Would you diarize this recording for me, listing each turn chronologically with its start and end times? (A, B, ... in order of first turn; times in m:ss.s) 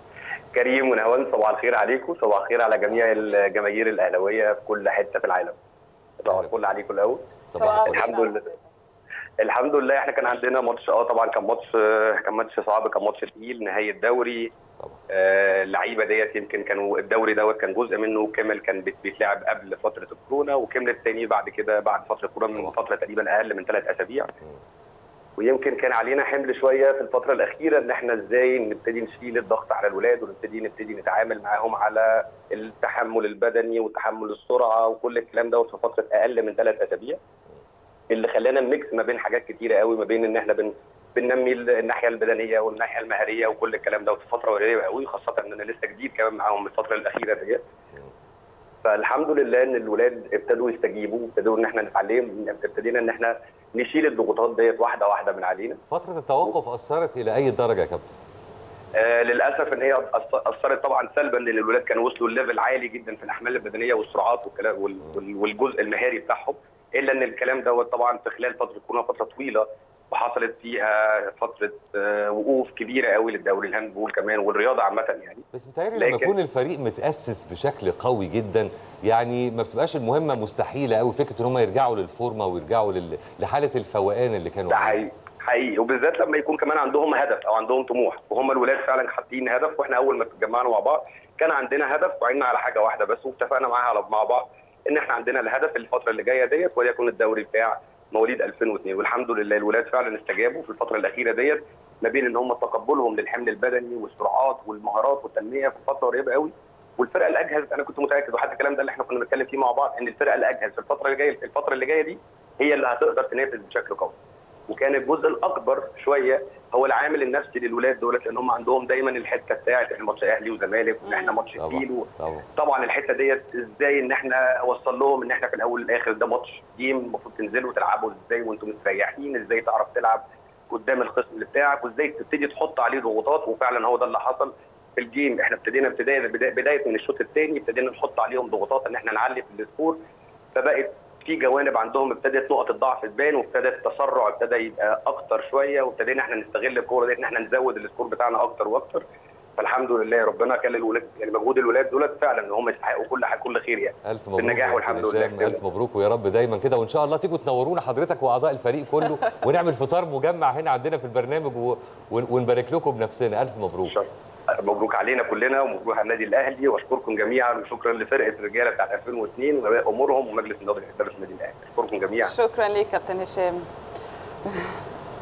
0:00.5-0:05.6 A
0:06.2-0:08.5 A
0:07.5-0:08.2 B
0:07.6-0:08.7 C
0:09.4-0:14.5 A
0:15.1-0:24.3 A
0:25.4-0:37.2 A
0:38.1-0:47.6 A
0:48.8-0:55.8 A
0:55.9-0:58.2 B
0:58.9-1:15.4 A
1:15.5-1:25.1 B
1:16.0-1:16.3 A
1:24.7-1:54.2 A
1:54.7-2:20.0 A
2:01.0-2:01.3 C
2:01.6-2:02.5 B
2:20.5-2:29.0 A
2:29.6-2:35.6 A
2:34.1-2:44.0 B
2:43.8-2:52.3 A
2:52.2-2:53.7 C
2:54.4-2:54.8 C